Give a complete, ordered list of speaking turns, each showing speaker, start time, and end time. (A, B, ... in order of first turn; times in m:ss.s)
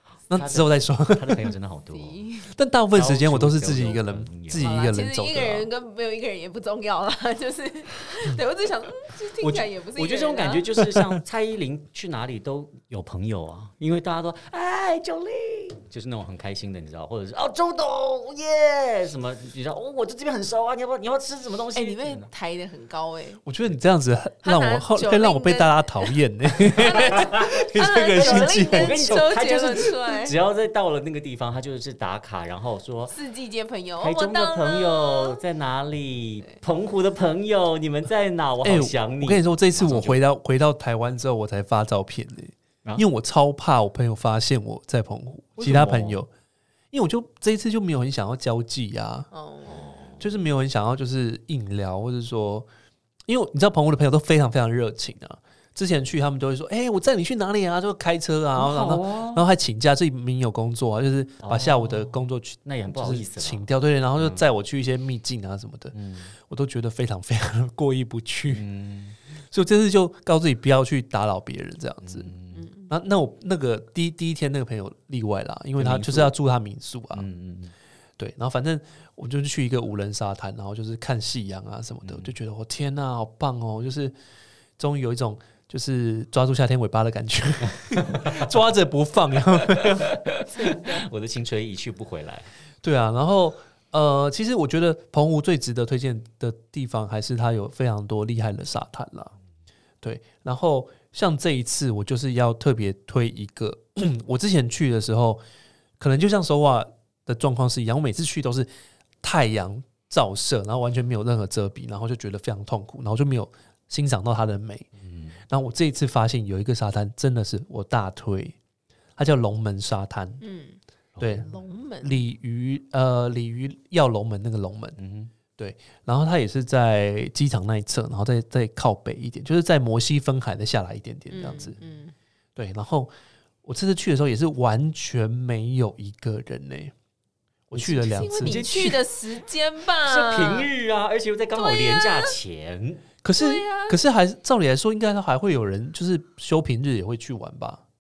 0:00.3-0:01.5 A
0:00.3-0:02.2 B
0:01.9-0:02.5 C
0:02.5-0:05.7 A
0:02.9-0:04.7 B
0:04.6-0:10.7 C
0:09.4-0:22.3 B
0:10.8-0:11.2 A
0:21.8-0:23.4 C
0:23.4-0:29.2 A
0:24.4-0:26.2 C
0:26.7-0:30.4 C
0:26.9-0:27.6 B
0:28.2-0:33.2 B
0:33.1-0:35.4 C
0:34.0-0:40.2 B
0:38.6-0:46.3 A
0:45.6-0:46.2 B
0:46.9-0:49.3 A
0:49.3-0:49.9 C
0:49.7-0:50.3 B
0:50.2-0:52.7 A
0:53.3-1:08.6 A
0:58.6-0:59.5 B
1:01.4-1:03.6 B
1:04.2-1:04.4 B
1:05.9-1:06.3 B
1:08.5-1:09.2 B
1:09.5-1:12.3 A
1:12.0-1:12.7 B
1:12.6-1:12.9 C
1:12.9-1:17.3 A
1:15.8-1:16.3 B
1:17.1-1:17.7 B
1:18.2-1:24.1 A
1:22.0-1:22.4 B
1:24.8-1:30.2 A
1:28.0-1:28.4 B
1:29.7-1:32.5 B
1:30.5-1:31.0 C
1:32.8-1:39.3 A
1:40.0-1:45.4 A
1:46.0-1:48.7 A
1:49.2-1:54.9 A
1:55.0-1:55.4 B
1:55.5-1:58.6 A
1:59.2-2:00.4 A
2:00.4-2:00.8 C
2:01.2-2:01.5 B
2:01.2-2:01.5 A
2:01.4-2:02.2 C
2:02.0-2:05.0 A
2:05.0-2:05.3 B
2:05.6-2:11.8 A
2:11.3-2:12.1 C
2:12.6-2:13.1 A
2:13.6-2:16.9 A
2:17.7-2:18.7 A
2:17.8-2:20.7 C
2:18.4-2:19.0 B
2:20.0-2:23.1 B
2:21.6-2:22.4 C
2:23.2-2:27.8 A
2:23.4-2:24.0 C